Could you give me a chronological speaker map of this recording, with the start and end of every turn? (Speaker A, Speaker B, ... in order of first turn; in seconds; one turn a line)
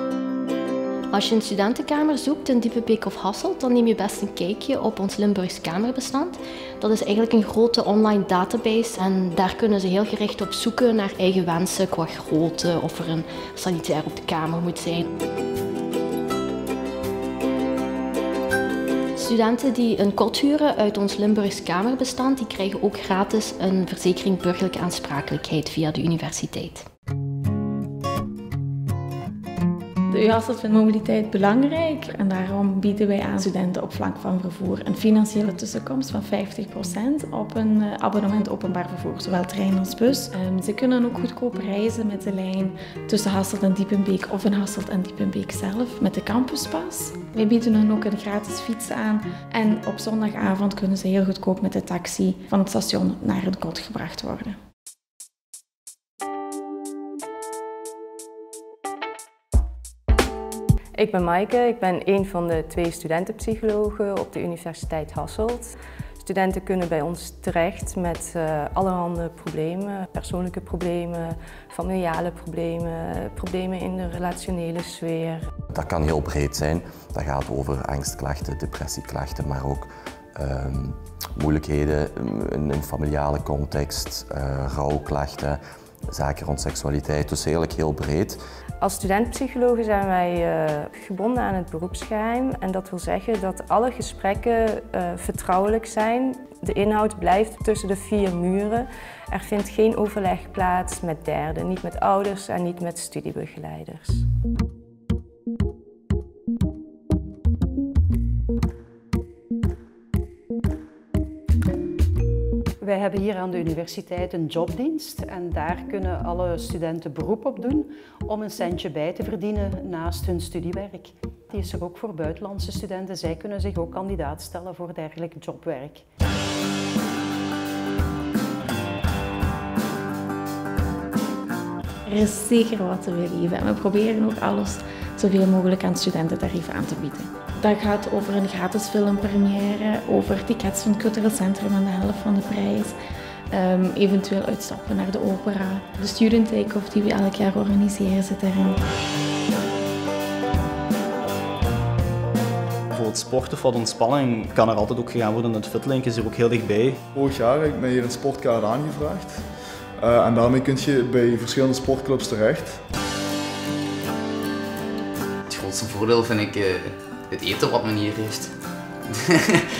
Speaker A: 1.1-15.1
Speaker A: 19.1-26.9
Speaker B: 30.1-54.6
Speaker C: 61.0-75.5
Speaker D: 75.7-88.4
Speaker C: 88.8-104.2
Speaker E: 112.8-126.0
Speaker B: 132.1-142.9
Speaker B: 143.5-148.8
Speaker F: 152.9-157.0
Speaker G: 157.1-162.8
Speaker H: 165.5-168.5
Speaker H: 169.1-169.6